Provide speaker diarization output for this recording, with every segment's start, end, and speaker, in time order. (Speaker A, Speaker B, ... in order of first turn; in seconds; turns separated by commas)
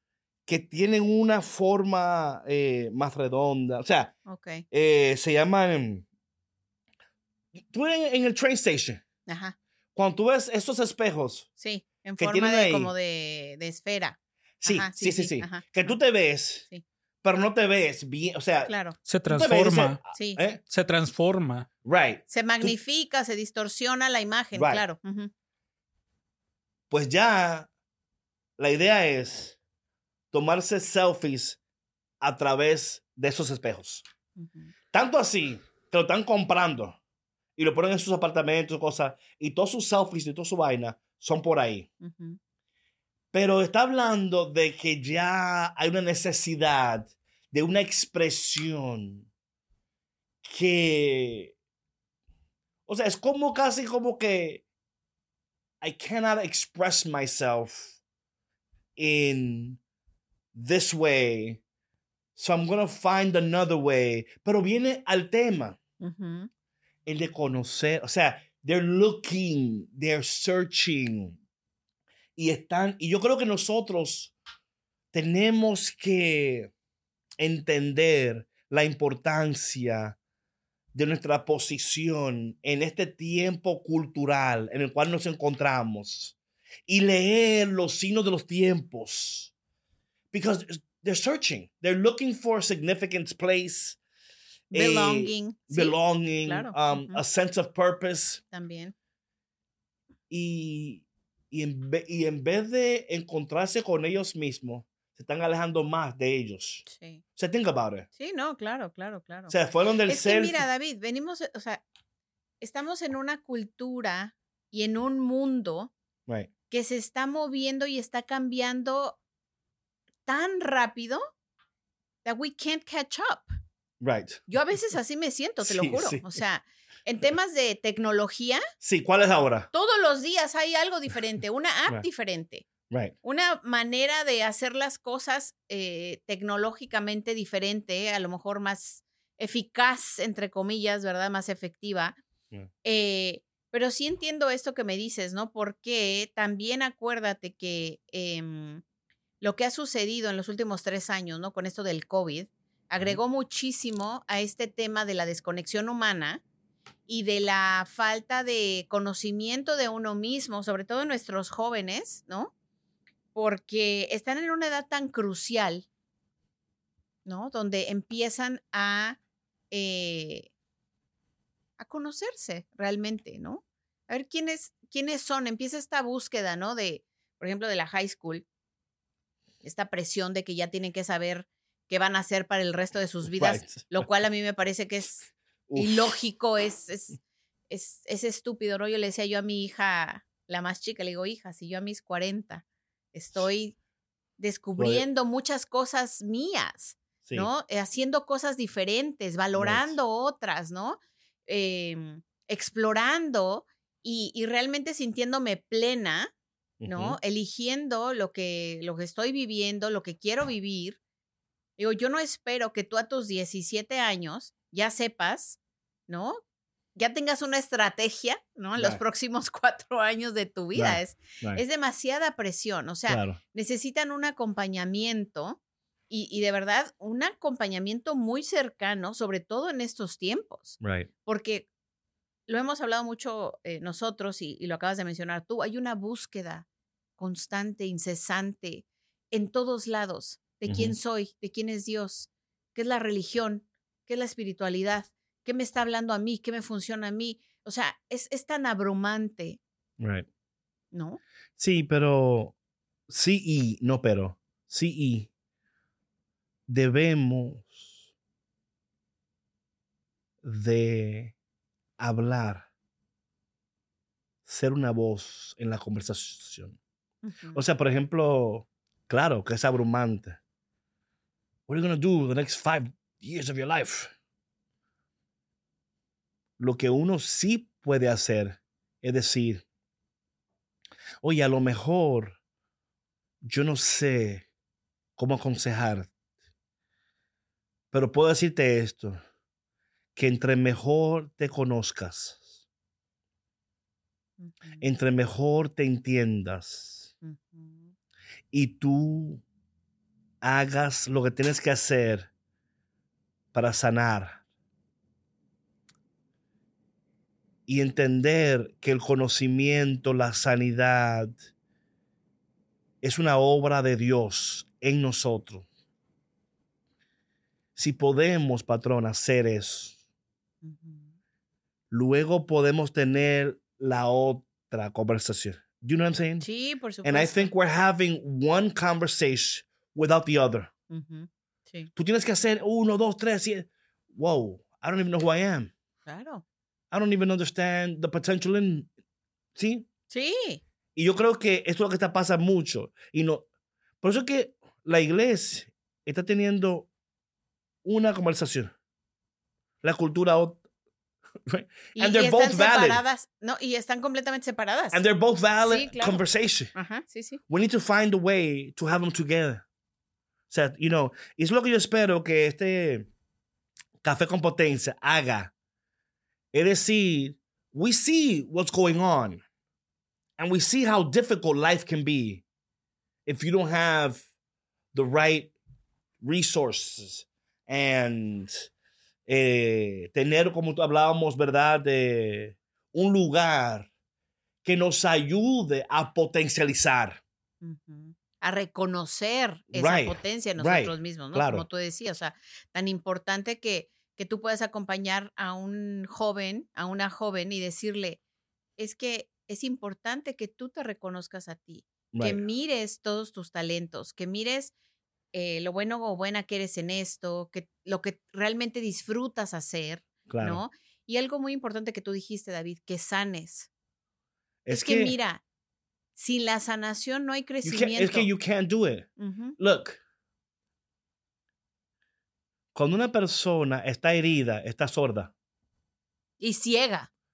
Speaker A: 0.5-4.1, Speaker B: 4.3-4.6, Speaker A: 4.7-6.0, Speaker A: 7.5-9.0, Speaker B: 9.3-9.6, Speaker A: 9.9-11.5, Speaker B: 11.6-16.0, Speaker A: 12.2-12.9, Speaker A: 14.6-16.7, Speaker A: 17.2-18.7, Speaker B: 18.6-19.0, Speaker C: 19.1-20.0, Speaker A: 19.3-20.6, Speaker B: 20.1-20.4, Speaker C: 20.7-21.7, Speaker A: 21.8-22.7, Speaker B: 22.3-25.3, Speaker A: 24.5-24.8, Speaker A: 26.9-27.7, Speaker A: 28.6-29.6, Speaker A: 30.3-31.6, Speaker A: 32.2-34.0, Speaker B: 34.4-34.7, Speaker A: 34.9-37.0, Speaker A: 37.6-41.9, Speaker B: 42.0-42.4, Speaker A: 43.3-49.3, Speaker A: 50.4-51.5, Speaker A: 52.9-54.6, Speaker A: 55.8-58.0, Speaker A: 59.0-59.8, Speaker A: 60.5-61.6, Speaker A: 62.4-65.8, Speaker B: 66.0-66.5, Speaker A: 67.0-71.4, Speaker A: 72.3-74.3, Speaker A: 75.1-76.7, Speaker A: 77.4-80.2, Speaker A: 80.9-86.3, Speaker A: 86.9-89.5, Speaker A: 90.3-94.0, Speaker A: 94.7-98.4, Speaker B: 94.7-97.2, Speaker B: 98.5-98.9, Speaker A: 100.3-106.8, Speaker B: 106.8-107.2, Speaker A: 107.3-108.1, Speaker B: 108.2-109.5, Speaker A: 109.5-110.6, Speaker B: 110.1-111.8, Speaker B: 112.6-115.9, Speaker B: 116.7-119.2, Speaker B: 120.2-121.3, Speaker B: 122.2-123.5, Speaker A: 124.0-124.4, Speaker B: 124.5-128.6, Speaker A: 125.6-126.4, Speaker A: 128.8-129.7, Speaker B: 129.7-132.7, Speaker A: 132.9-133.1, Speaker B: 133.2-142.2, Speaker B: 142.8-148.8, Speaker B: 149.4-156.4, Speaker B: 157.1-162.5, Speaker B: 163.3-165.9, Speaker B: 167.2-169.2, Speaker B: 169.7-170.5, Speaker B: 171.8-178.4, Speaker B: 179.6-187.2, Speaker A: 183.2-184.0, Speaker A: 185.7-186.2, Speaker B: 187.7-193.7, Speaker B: 194.4-206.3, Speaker A: 194.8-195.0, Speaker A: 199.6-199.9, Speaker A: 206.8-207.2, Speaker B: 206.8-211.0, Speaker B: 211.8-216.4, Speaker B: 216.9-225.6, Speaker A: 218.8-219.0, Speaker A: 220.7-221.6, Speaker A: 223.1-223.4, Speaker B: 226.1-231.7, Speaker A: 230.8-231.1, Speaker B: 232.5-236.6, Speaker B: 237.2-249.6, Speaker A: 240.7-240.9, Speaker A: 250.0-250.3, Speaker B: 250.9-251.2, Speaker A: 251.6-252.5, Speaker A: 253.1-255.3, Speaker A: 256.7-258.0, Speaker A: 260.4-261.3, Speaker A: 262.0-262.7, Speaker A: 264.4-266.8, Speaker B: 267.2-267.6, Speaker A: 267.5-270.4, Speaker A: 271.7-274.1, Speaker A: 276.6-279.6, Speaker A: 281.2-282.4, Speaker A: 283.4-284.4, Speaker A: 285.2-286.1, Speaker A: 287.9-289.2, Speaker A: 290.1-292.5, Speaker B: 294.4-294.9, Speaker A: 294.8-297.1, Speaker B: 297.2-297.9, Speaker A: 298.5-299.4, Speaker A: 300.4-302.3, Speaker A: 303.5-304.4, Speaker A: 307.7-311.4, Speaker A: 313.0-315.6, Speaker A: 317.8-320.0, Speaker B: 320.6-321.1, Speaker A: 321.9-326.5, Speaker B: 326.4-327.5, Speaker A: 327.0-330.7, Speaker B: 330.9-331.9, Speaker A: 331.9-335.7, Speaker B: 336.1-336.4, Speaker A: 336.9-338.9, Speaker A: 339.6-339.9, Speaker B: 340.1-340.6, Speaker A: 340.9-343.4, Speaker A: 344.0-346.9, Speaker A: 347.8-348.7, Speaker A: 349.8-350.6, Speaker A: 351.4-353.0, Speaker B: 351.9-355.0, Speaker A: 354.9-356.7, Speaker B: 355.6-356.2, Speaker B: 356.7-357.4, Speaker A: 357.5-359.6, Speaker A: 360.5-363.1, Speaker A: 364.0-365.5, Speaker A: 366.5-369.4, Speaker A: 370.4-372.4, Speaker A: 373.2-374.2, Speaker A: 374.9-375.5, Speaker A: 376.2-378.7, Speaker A: 379.3-383.9, Speaker A: 384.6-387.2, Speaker B: 387.6-398.2, Speaker A: 389.7-391.6, Speaker B: 398.8-404.7, Speaker A: 402.1-402.4, Speaker B: 405.3-413.7, Speaker A: 410.3-410.6, Speaker A: 414.6-415.1, Speaker B: 414.7-415.4, Speaker B: 416.1-418.3, Speaker A: 417.6-420.0, Speaker B: 419.2-419.6, Speaker A: 422.7-425.3, Speaker B: 426.4-427.1